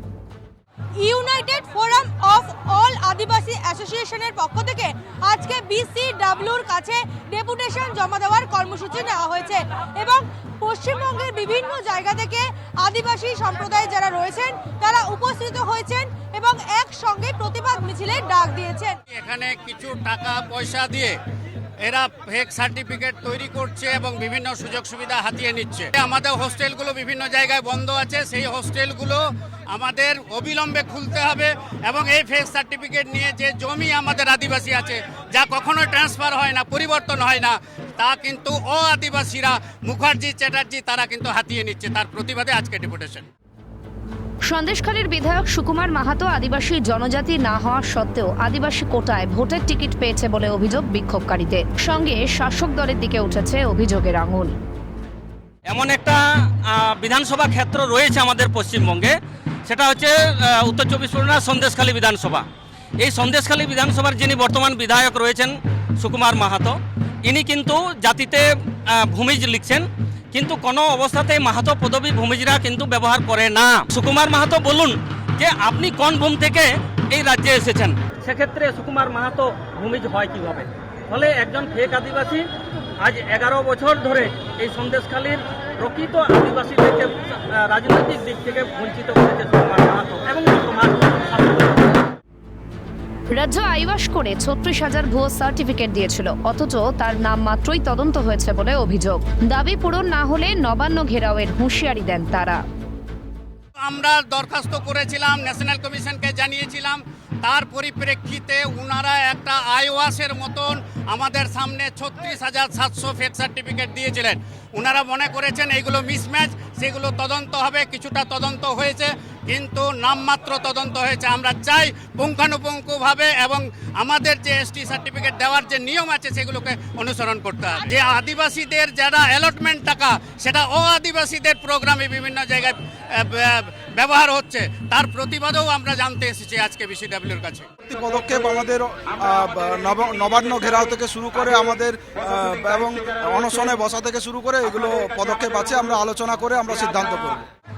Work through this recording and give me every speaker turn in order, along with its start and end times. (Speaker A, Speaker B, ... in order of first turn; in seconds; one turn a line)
Speaker A: 1.0-19.0
Speaker B: 19.1-21.2
Speaker B: 21.8-43.2
Speaker C: 44.5-54.5
Speaker D: 55.7-59.1
Speaker D: 59.7-62.5
Speaker D: 63.0-82.5
Speaker D: 83.0-92.0
Speaker C: 93.3-102.6
Speaker B: 103.8-137.7
Speaker E: 137.8-147.4